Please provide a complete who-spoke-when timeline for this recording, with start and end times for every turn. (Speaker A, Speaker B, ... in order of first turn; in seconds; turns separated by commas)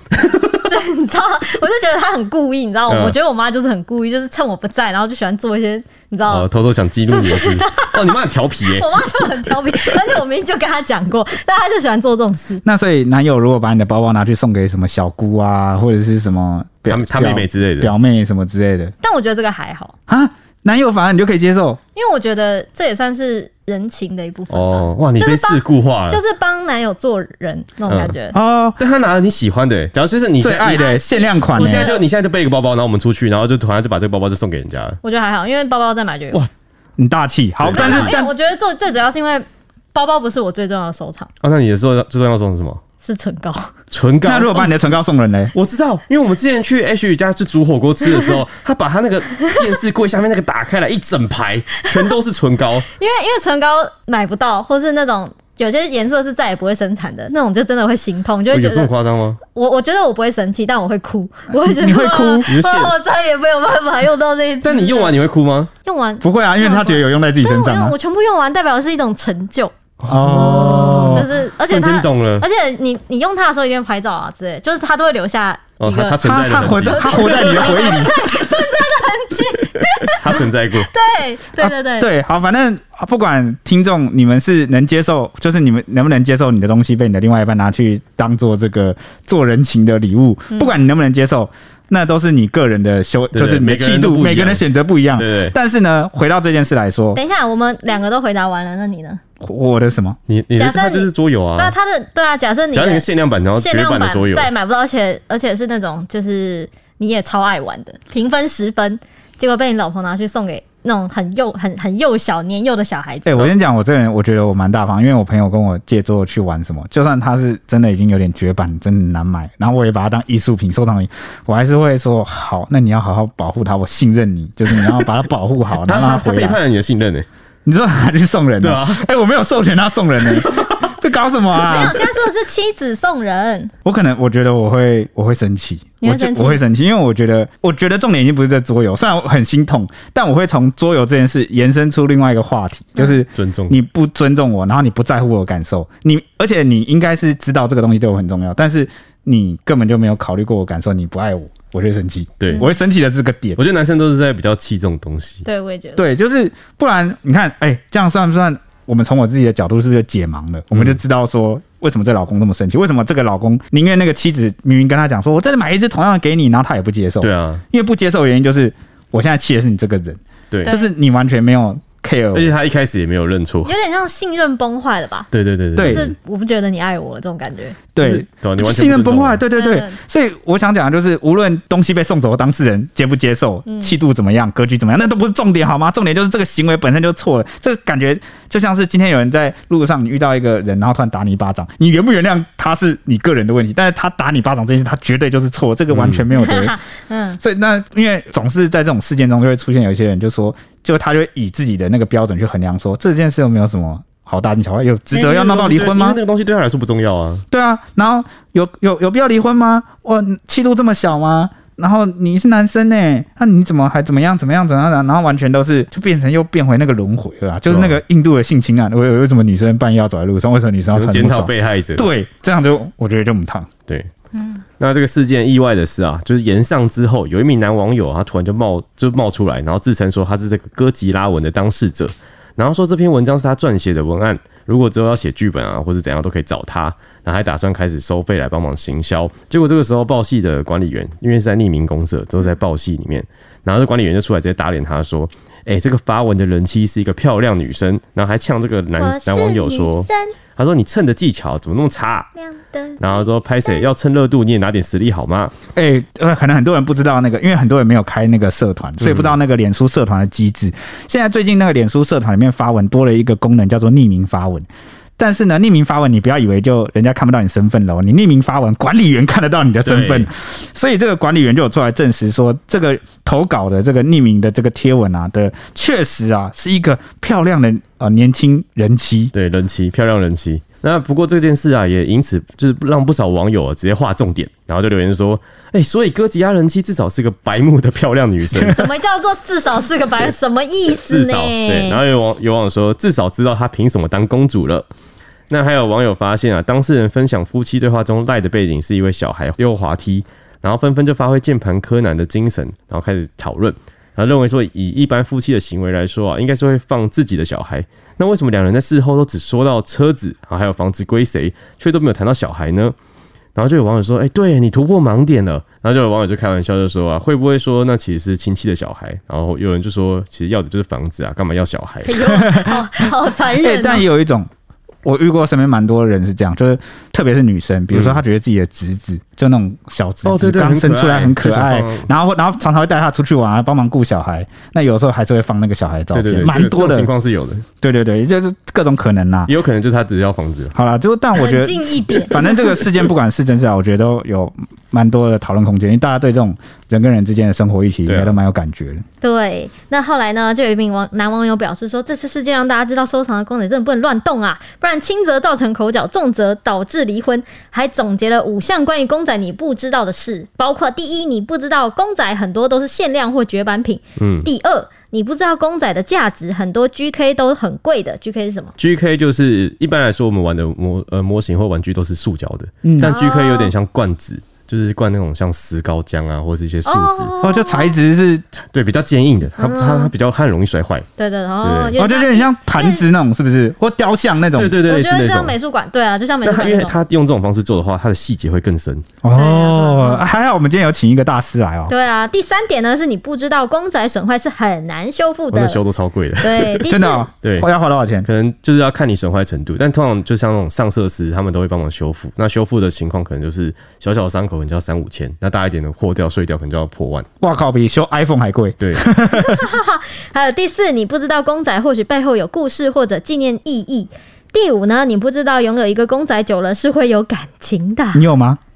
Speaker A: 0.5-6.5, Speaker B: 2.9-3.2, Speaker B: 6.3-9.0, Speaker A: 7.1-8.1, Speaker A: 8.6-12.6, Speaker C: 12.6-18.9, Speaker B: 16.9-17.9, Speaker A: 19.0-19.9, Speaker C: 20.1-21.8, Speaker A: 21.9-28.4, Speaker B: 24.5-26.2, Speaker B: 27.9-28.2, Speaker C: 28.3-28.8, Speaker B: 28.8-30.8, Speaker C: 30.4-31.9, Speaker A: 30.7-32.0, Speaker B: 31.5-35.0, Speaker A: 35.0-36.4, Speaker C: 37.0-38.3, Speaker B: 37.6-38.2, Speaker A: 37.7-41.3, Speaker B: 41.4-42.8, Speaker A: 43.0-43.7, Speaker B: 43.9-44.7, Speaker C: 44.2-45.5, Speaker B: 45.5-52.9, Speaker A: 52.9-58.9, Speaker B: 58.5-59.4, Speaker A: 59.5-65.1, Speaker C: 61.5-62.5, Speaker B: 62.5-62.9, Speaker B: 64.6-65.7, Speaker A: 65.8-69.7, Speaker C: 66.2-68.0, Speaker B: 70.0-72.5, Speaker C: 70.0-71.3, Speaker A: 70.3-82.1, Speaker B: 75.8-78.0, Speaker C: 76.2-78.1, Speaker B: 80.1-80.9, Speaker C: 81.6-97.2, Speaker A: 90.5-90.8, Speaker B: 93.3-94.6, Speaker B: 95.2-95.5, Speaker A: 97.1-99.2, Speaker C: 99.4-100.2, Speaker B: 100.3-101.7, Speaker A: 100.5-113.4, Speaker B: 102.7-104.5, Speaker C: 113.2-126.6, Speaker B: 125.8-127.2, Speaker C: 127.7-132.0, Speaker B: 128.6-129.0, Speaker B: 130.3-130.7, Speaker A: 131.6-133.7, Speaker C: 133.8-153.6, Speaker A: 136.0-136.6, Speaker B: 143.3-143.8, Speaker B: 152.4-152.7, Speaker B: 153.6-155.4, Speaker A: 155.4-156.0, Speaker C: 156.0-172.5, Speaker B: 167.2-167.6, Speaker A: 170.6-170.9, Speaker B: 172.3-173.7, Speaker A: 173.6-177.8, Speaker B: 175.3-176.1, Speaker C: 175.8-176.1, Speaker C: 177.9-196.8, Speaker B: 178.0-179.4, Speaker A: 179.5-180.0, Speaker A: 183.7-183.9, Speaker B: 195.9-196.3, Speaker A: 196.3-197.4, Speaker C: 197.4-206.2, Speaker B: 205.1-207.4, Speaker C: 207.5-223.7, Speaker B: 217.7-218.0, Speaker B: 220.9-222.1, Speaker B: 224.8-252.3, Speaker A: 249.0-250.3, Speaker A: 252.3-253.8, Speaker B: 253.0-255.5, Speaker C: 255.7-264.7, Speaker B: 259.0-259.4, Speaker C: 265.2-279.3, Speaker B: 269.8-270.3, Speaker B: 279.3-288.8, Speaker A: 288.6-292.0, Speaker B: 290.9-294.9, Speaker B: 295.5-312.9, Speaker B: 313.5-322.2, Speaker A: 322.0-324.1, Speaker C: 322.2-323.0, Speaker C: 323.6-324.5, Speaker C: 325.0-337.1, Speaker B: 327.9-328.2, Speaker B: 330.2-332.1, Speaker B: 336.1-337.6, Speaker C: 337.8-339.5, Speaker B: 339.5-340.7, Speaker C: 340.7-349.0, Speaker A: 341.4-342.9, Speaker B: 348.1-348.4, Speaker A: 349.2-368.7, Speaker B: 364.2-364.5, Speaker B: 368.8-377.3, Speaker C: 372.8-373.1, Speaker A: 373.0-373.7, Speaker A: 376.9-377.9, Speaker C: 377.4-378.4, Speaker B: 378.7-381.1, Speaker A: 379.6-380.1, Speaker A: 381.2-383.1, Speaker B: 381.6-382.0, Speaker C: 381.9-384.8, Speaker B: 384.6-385.6, Speaker A: 384.9-386.9, Speaker B: 386.4-389.1, Speaker C: 389.2-391.9, Speaker A: 389.3-390.3, Speaker A: 391.9-395.8, Speaker B: 395.5-396.8, Speaker A: 396.4-397.3, Speaker C: 396.9-398.3, Speaker B: 397.4-397.7, Speaker B: 398.2-407.3, Speaker C: 407.4-409.6, Speaker B: 408.8-409.1, Speaker A: 409.3-418.2, Speaker C: 418.1-418.6